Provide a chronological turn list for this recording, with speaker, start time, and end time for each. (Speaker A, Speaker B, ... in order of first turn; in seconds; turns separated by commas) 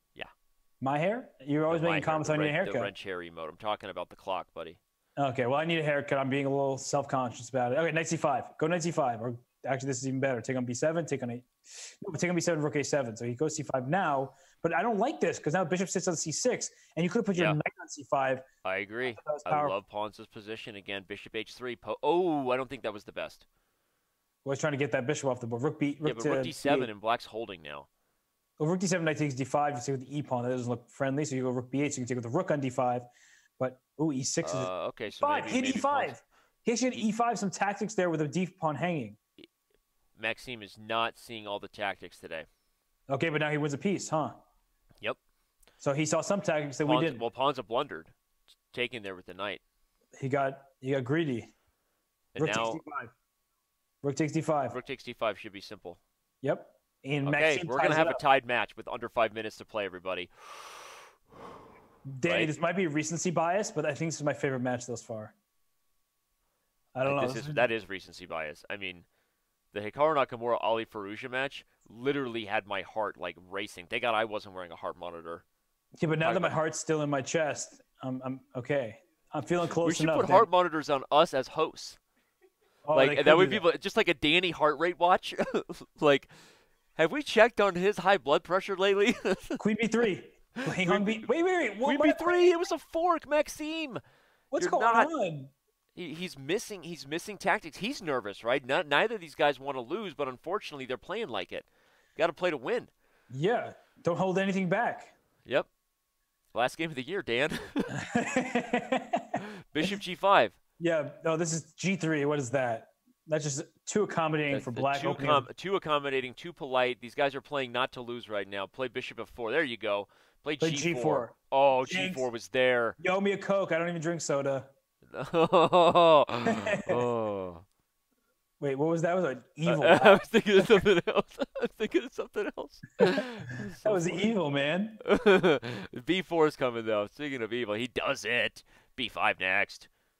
Speaker A: 0.8-2.9, Speaker B: 1.7-4.8, Speaker A: 5.2-18.4, Speaker B: 18.6-23.4, Speaker A: 19.2-19.8, Speaker A: 24.4-26.9, Speaker B: 26.0-27.9, Speaker A: 28.6-39.2, Speaker B: 34.4-36.1, Speaker B: 40.2-42.5, Speaker A: 43.1-44.4, Speaker A: 45.8-47.2, Speaker B: 46.8-48.1, Speaker B: 48.7-49.6, Speaker A: 50.2-51.5, Speaker B: 52.3-52.8, Speaker A: 52.4-53.1, Speaker A: 54.0-54.8, Speaker B: 54.7-56.0, Speaker A: 56.4-58.2, Speaker B: 57.2-60.8, Speaker A: 62.1-65.3, Speaker B: 62.2-62.5, Speaker A: 66.9-67.6, Speaker B: 67.0-69.0, Speaker B: 69.7-75.4, Speaker A: 75.9-80.5, Speaker B: 76.2-76.6, Speaker B: 79.8-82.0, Speaker A: 82.8-83.7, Speaker B: 82.9-86.3, Speaker B: 87.0-89.6, Speaker A: 89.6-92.5, Speaker B: 90.6-91.3, Speaker B: 91.8-94.0, Speaker A: 94.5-95.5, Speaker B: 94.6-95.1, Speaker B: 96.0-102.9, Speaker A: 103.3-105.1, Speaker B: 106.5-107.9, Speaker A: 107.9-109.9, Speaker B: 109.4-110.5, Speaker A: 110.8-115.5, Speaker B: 114.5-123.0, Speaker A: 120.6-121.3, Speaker A: 121.9-122.3, Speaker A: 123.0-124.7, Speaker B: 125.1-127.6, Speaker A: 126.4-127.0, Speaker A: 128.6-130.8, Speaker B: 129.6-134.3, Speaker A: 133.8-135.0, Speaker B: 135.0-139.9